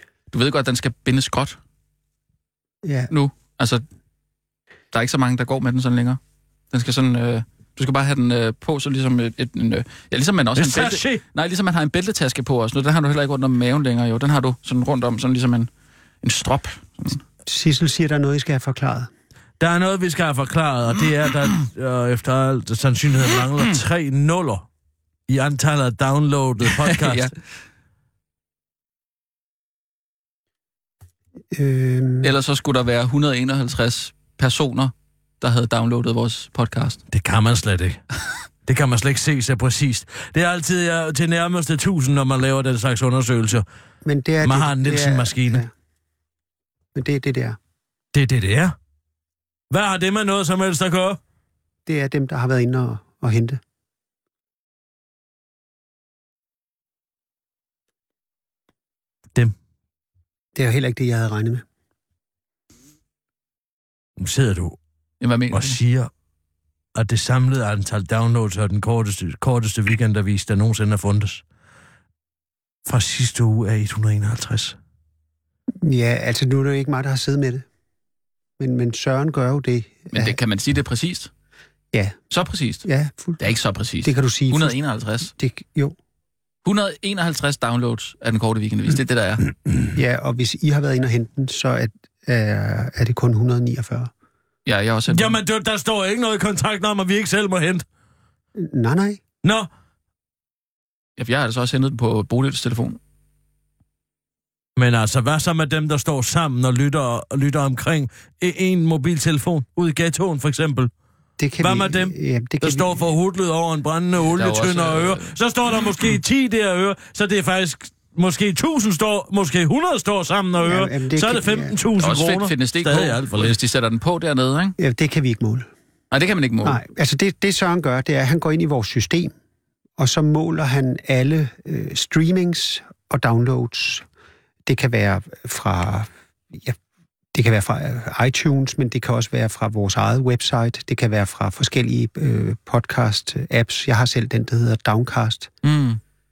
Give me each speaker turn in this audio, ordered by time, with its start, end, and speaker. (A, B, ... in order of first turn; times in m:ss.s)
0:00.3-0:01.6 A
0:02.8-0:03.1 B
0:03.1-0:03.8 A
0:04.9-0:06.2 A
0:06.7-0:15.7 A
0:10.6-0:11.2 C
0:16.2-0:17.2 A
0:17.4-0:19.1 B
0:19.6-0:24.7 C
0:25.3-0:27.3 C
0:26.6-0:27.3 A
0:31.5-0:32.3 B
0:32.2-0:37.0 A
0:37.1-0:38.0 C
0:38.6-0:43.6 C
0:44.0-0:45.7 B
0:44.4-0:45.6 C
0:46.9-0:47.6 B
0:48.1-0:48.7 C
0:49.7-0:51.2 C
0:51.8-0:53.6 B
1:00.5-1:01.6 B
1:04.2-1:04.8 C
1:05.2-1:05.8 A
1:05.5-1:06.1 C
1:06.9-1:11.4 C
1:12.8-1:14.8 C
1:15.8-1:17.6 B
1:18.6-1:20.4 B
1:20.1-1:21.3 A
1:21.9-1:22.2 B
1:22.3-1:22.8 A
1:22.8-1:23.4 B
1:23.4-1:25.3 A
1:24.0-1:25.9 B
1:26.6-1:29.4 A
1:29.9-1:34.1 B
1:34.6-1:35.4 A
1:35.1-1:37.8 C
1:38.5-1:39.2 B
1:39.4-1:39.7 C
1:41.2-1:43.0 A
1:44.8-1:50.9 C
1:51.4-1:53.1 B
1:51.6-2:03.6 C
1:54.2-1:55.3 A
2:00.6-2:01.8 B
2:02.0-2:04.8 A
2:04.8-2:05.7 B
2:06.1-2:06.8 A
2:06.6-2:09.3 B
2:10.0-2:14.0 B
2:14.6-2:16.8 B
2:17.3-2:25.5 B
2:25.6-2:26.0 A